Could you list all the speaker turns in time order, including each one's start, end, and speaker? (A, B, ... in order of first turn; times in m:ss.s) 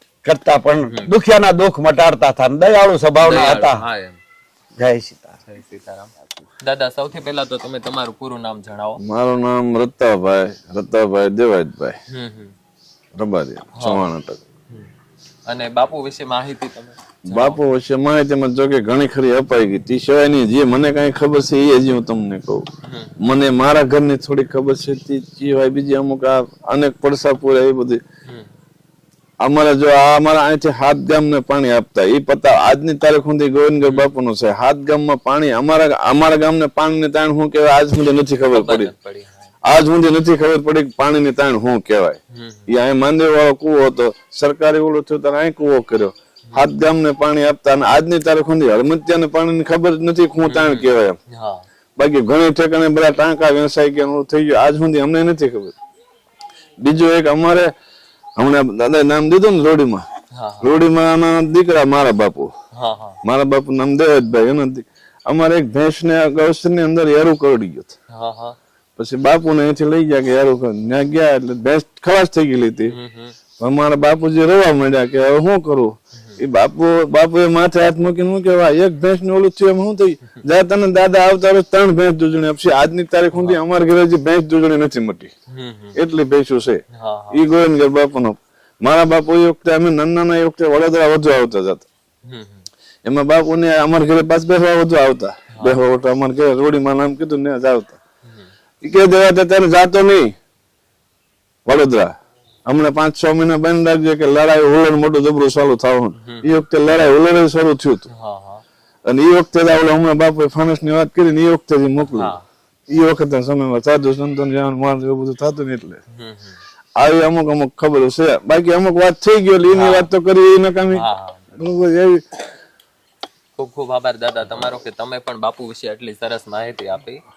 0:00.3-0:03.8 A
0:03.2-0:04.2 B
0:04.8-0:05.3 A
0:05.5-0:06.1 B
0:06.6-0:09.0 B
0:09.0-0:12.0 C
0:12.1-0:12.6 B
0:13.2-0:14.4 C
0:13.8-0:14.1 B
0:15.5-0:17.6 B
0:17.2-0:22.6 C
0:22.8-0:23.1 B
0:23.2-0:28.0 C
0:29.4-0:38.9 C
0:33.8-0:34.1 B
0:38.5-0:39.5 B
0:39.6-0:51.2 C
0:42.3-0:42.7 B
0:50.4-0:51.6 B
0:52.0-0:55.7 C
0:56.8-0:57.7 C
0:58.4-1:00.1 C
1:00.3-1:00.7 B
1:00.6-1:02.5 C
1:02.7-1:03.2 B
1:03.2-1:08.0 C
1:08.1-1:08.6 B
1:09.0-1:13.0 C
1:12.9-1:13.4 B
1:13.6-1:25.3 C
1:23.3-1:23.6 B
1:25.5-1:26.0 B
1:26.0-1:31.9 C
1:26.9-1:27.4 B
1:32.2-1:32.7 B
1:33.0-1:38.0 C
1:35.5-1:35.8 B
1:38.8-1:40.3 C
1:41.6-1:42.1 C
1:42.7-1:48.1 C
1:46.2-1:46.5 B
1:48.1-1:48.6 B
1:49.0-1:52.4 C
1:52.0-1:52.4 B
1:52.9-1:56.0 C
1:56.1-1:56.6 B
1:57.0-2:02.2 C
1:59.7-2:00.1 B
2:00.9-2:01.4 B
2:03.6-2:07.2 B